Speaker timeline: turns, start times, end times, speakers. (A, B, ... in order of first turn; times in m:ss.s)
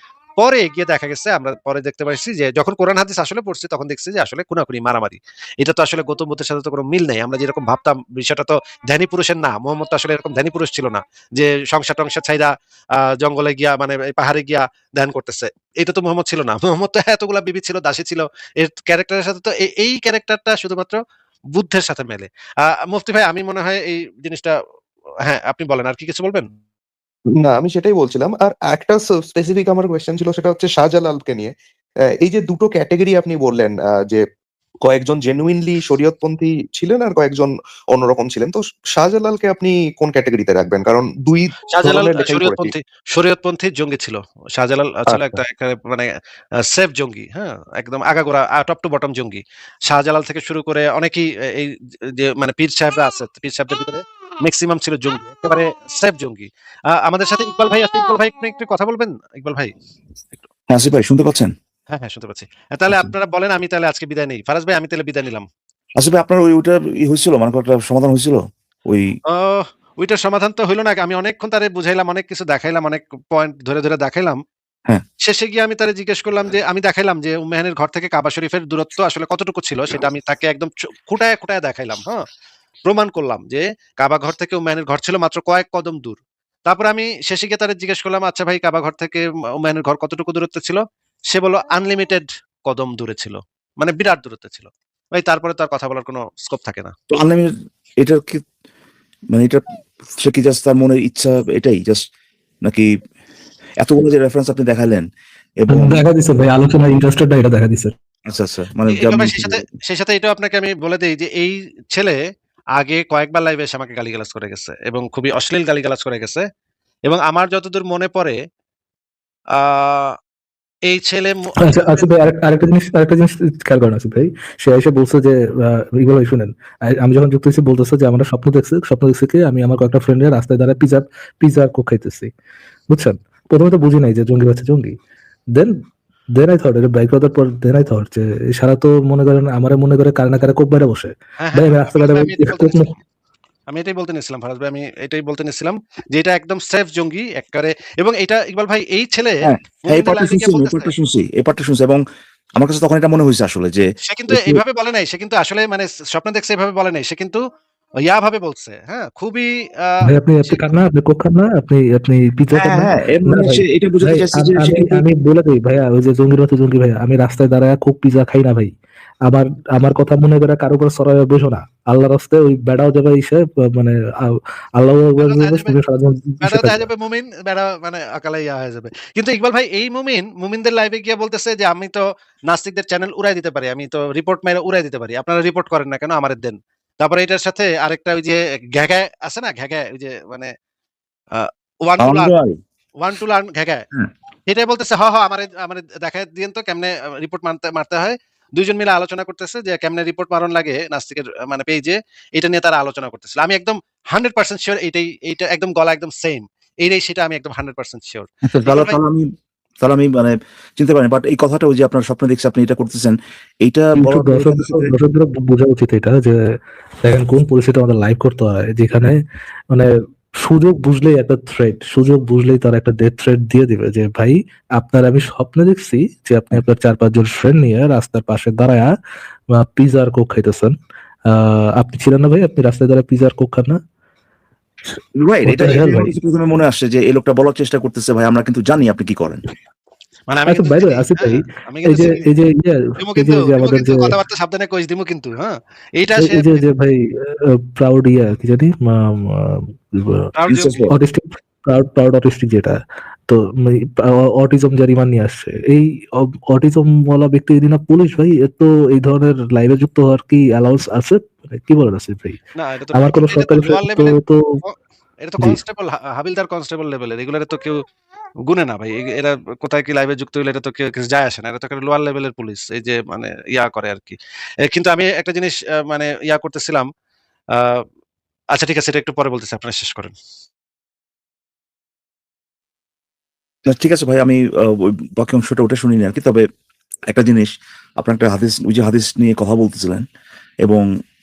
0:00.4-0:21.0 A
0:21.5-0:24.5 A
0:25.2-0:26.5 A
0:27.4-0:31.5 B
0:32.2-0:34.2 B
0:34.8-0:42.7 B
0:41.7-0:46.1 A
0:45.1-0:45.4 B
0:46.6-0:59.7 A
1:00.7-1:01.5 C
1:01.9-1:05.5 A
1:06.0-1:09.2 C
1:09.3-1:14.4 A
1:15.2-1:22.2 A
1:22.9-1:36.9 A
1:37.1-1:38.4 C
1:39.3-1:39.6 C
1:40.2-1:42.0 C
1:43.8-1:45.1 C
1:45.6-1:46.1 C
1:45.7-1:47.9 D
1:48.3-1:49.6 C
1:48.9-1:52.2 A
1:52.8-1:56.4 A
1:57.1-1:58.4 A
1:59.6-2:00.2 A
2:00.9-2:02.1 A
2:01.7-2:12.3 D
2:12.9-2:15.0 D
2:16.3-2:22.9 D
2:21.4-2:22.9 A
2:23.7-2:30.9 A
2:29.4-2:32.0 C
2:32.6-2:34.6 C
2:34.1-2:37.4 A
2:38.0-2:40.7 A
2:40.1-2:48.8 D
2:42.5-2:45.0 C
2:49.3-2:56.8 D
2:55.2-2:55.8 A
2:56.4-3:10.5 A
3:11.4-3:12.3 A
3:12.0-3:12.6 C
3:13.0-3:13.9 A
3:14.5-3:29.0 A
3:28.5-3:29.3 C
3:29.8-3:35.0 C
3:34.0-3:36.4 D
3:37.0-3:39.2 D
3:39.7-3:48.9 D
3:49.5-3:50.8 D
3:51.3-3:53.8 D
3:55.2-3:59.4 C
3:55.5-3:56.1 D
4:00.3-4:02.3 A
4:00.5-4:04.1 D
4:03.0-4:06.6 A
4:06.2-4:10.2 D
4:10.3-4:10.8 A
4:10.5-4:10.9 C
4:11.0-4:22.4 D
4:22.6-4:27.8 A
4:23.0-4:24.4 D
4:28.5-4:36.9 A
4:37.6-4:37.8 A
4:38.5-4:40.2 A
4:43.7-4:46.4 C
4:47.1-4:50.0 C